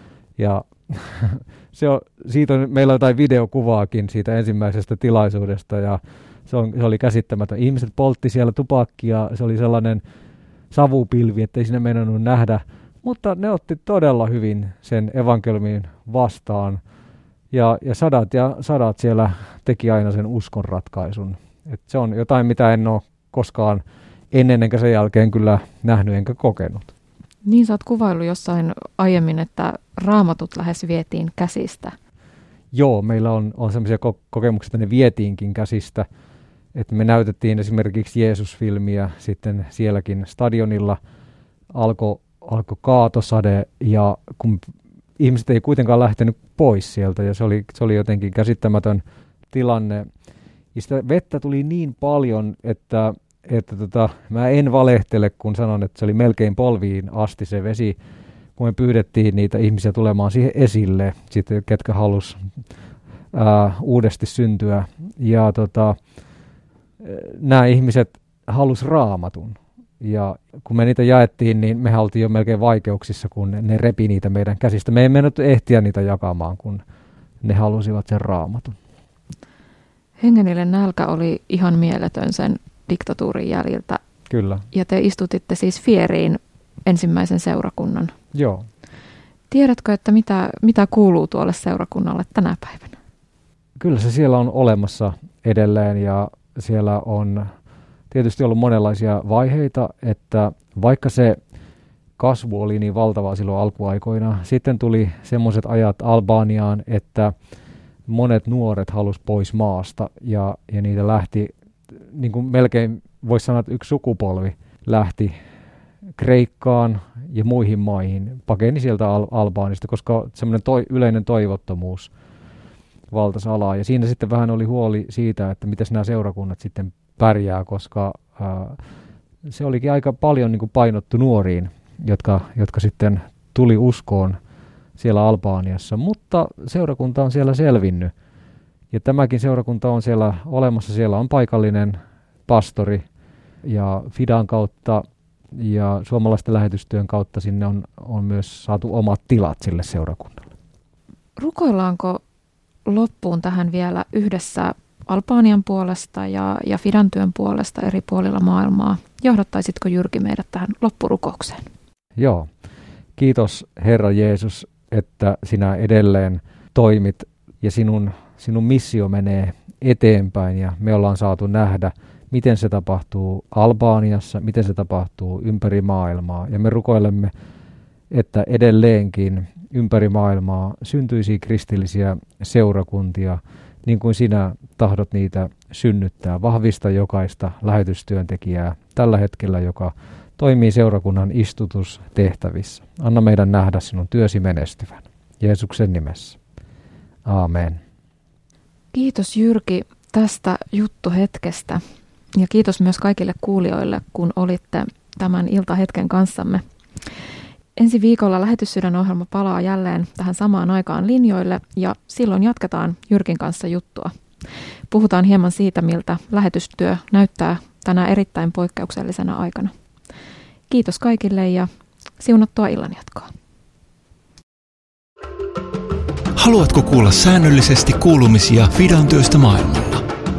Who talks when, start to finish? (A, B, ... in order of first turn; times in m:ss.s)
0:00.4-0:10.0 A
0:10.7-0:16.8 A
0:17.5-0:26.9 A
0:27.4-0:31.9 B
0:32.7-0:36.0 A
0:36.7-0:41.0 A
0:41.7-0:50.0 A
0:50.7-0:58.0 A
0:58.6-1:02.4 A
1:03.3-1:06.0 A
1:07.0-1:16.8 A
1:17.4-1:18.8 A
1:20.2-1:24.0 B
1:24.3-1:24.6 A
1:24.7-1:28.1 B
1:28.3-1:28.6 A
1:29.5-1:33.0 B
1:33.8-1:37.5 A
1:38.1-1:41.4 A
1:42.2-1:47.3 A
1:48.1-1:55.3 A
1:56.2-2:02.1 A
2:03.1-2:08.8 A
2:09.5-2:14.4 A
2:15.0-2:18.1 A
2:18.9-2:23.0 A
2:23.6-2:30.5 A
2:31.4-2:32.2 B
2:32.8-2:41.6 B
2:42.2-2:42.5 A
2:43.2-2:57.3 A
2:58.1-3:16.4 A
3:17.2-3:17.8 A
3:18.9-3:21.8 B
3:22.4-3:26.6 B
3:27.8-3:34.1 B
3:34.9-3:39.7 B
3:40.7-3:41.7 B
3:42.2-3:43.3 B
3:46.3-3:50.0 C